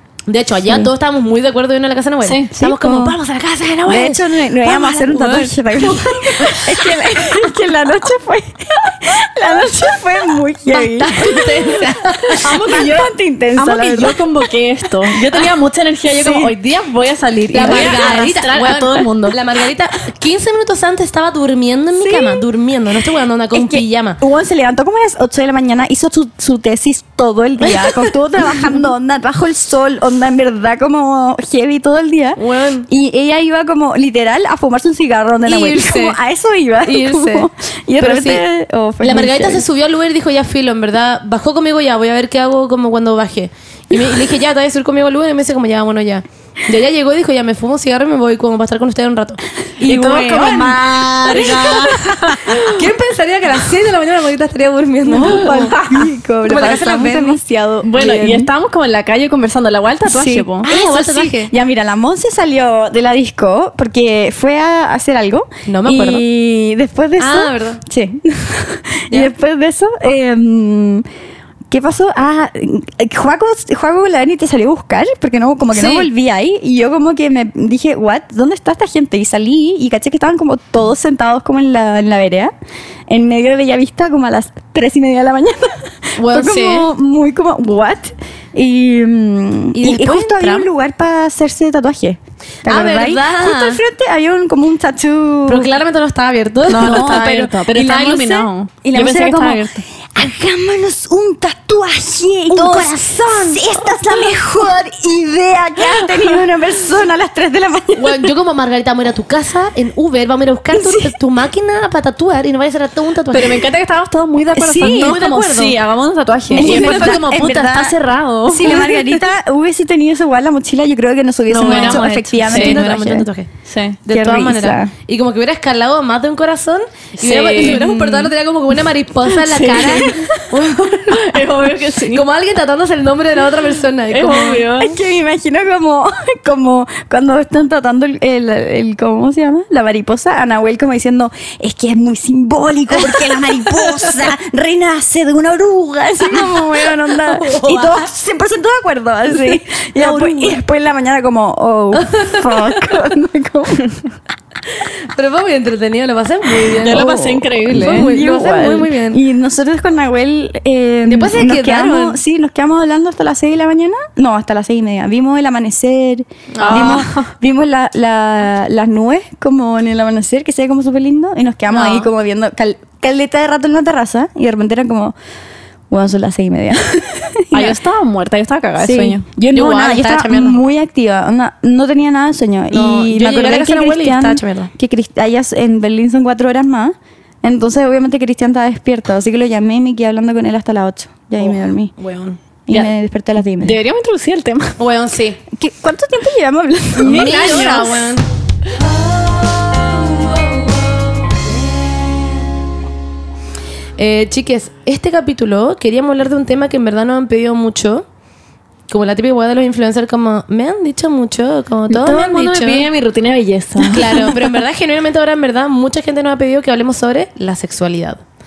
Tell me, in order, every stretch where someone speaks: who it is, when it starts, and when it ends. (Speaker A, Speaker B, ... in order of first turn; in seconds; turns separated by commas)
Speaker A: 0.3-6.6, Speaker B: 2.2-2.5, Speaker C: 2.5-3.2, Speaker C: 3.9-11.8, Speaker A: 10.7-12.5, Speaker B: 12.3-19.4, Speaker C: 12.5-14.2, Speaker C: 16.1-16.5, Speaker A: 17.5-24.2, Speaker C: 17.6-17.9, Speaker C: 21.9-22.4, Speaker C: 23.5-39.6, Speaker A: 27.6-28.0, Speaker A: 32.4-32.9, Speaker A: 35.5-36.2, Speaker A: 36.8-37.5, Speaker A: 38.0-38.4, Speaker A: 39.0-50.8, Speaker C: 49.9-50.4, Speaker B: 49.9-52.6, Speaker A: 51.3-55.8, Speaker C: 55.0-58.5, Speaker B: 55.2-56.0, Speaker A: 56.4-57.4, Speaker B: 57.8-60.7, Speaker C: 60.0-71.0, Speaker A: 60.6-61.5, Speaker A: 65.7-66.2, Speaker A: 67.2-67.8, Speaker C: 71.7-82.5, Speaker B: 75.7-76.0, Speaker C: 83.1-95.7, Speaker A: 86.2-86.9, Speaker A: 89.7-90.7, Speaker A: 92.6-93.8, Speaker A: 95.5-97.2, Speaker B: 96.7-99.8, Speaker C: 96.7-108.3, Speaker A: 102.5-104.3, Speaker A: 107.9-113.7, Speaker C: 110.7-111.1, Speaker B: 113.3-119.0, Speaker C: 114.5-115.2, Speaker A: 114.7-115.8, Speaker A: 116.5-117.2, Speaker C: 116.5-123.3, Speaker B: 121.5-122.8, Speaker A: 121.6-123.5, Speaker B: 123.7-124.0, Speaker A: 124.0-134.7, Speaker C: 124.1-124.9, Speaker B: 127.2-127.9, Speaker C: 127.5-128.3, Speaker B: 129.3-130.4, Speaker B: 131.1-132.2, Speaker B: 134.1-135.0, Speaker C: 134.8-153.9, Speaker A: 143.0-144.3, Speaker A: 146.3-148.0, Speaker A: 149.9-150.6, Speaker A: 151.9-153.0, Speaker A: 154.8-157.1, Speaker C: 156.6-175.1, Speaker B: 156.8-158.1, Speaker A: 157.7-159.2, Speaker A: 161.1-162.2, Speaker A: 166.5-167.1, Speaker B: 166.6-167.3, Speaker A: 171.7-172.1, Speaker C: 175.9-177.8, Speaker B: 177.5-179.2, Speaker C: 178.8-191.9, Speaker A: 179.5-180.6, Speaker A: 182.7-184.7, Speaker A: 191.4-192.4, Speaker C: 192.7-193.8, Speaker B: 193.6-194.8, Speaker A: 194.8-195.4, Speaker C: 195.5-197.5, Speaker B: 196.9-198.1, Speaker A: 197.0-198.2, Speaker A: 199.6-200.0, Speaker A: 204.0-208.0, Speaker A: 208.9-212.9, Speaker B: 211.9-214.3, Speaker A: 213.9-218.2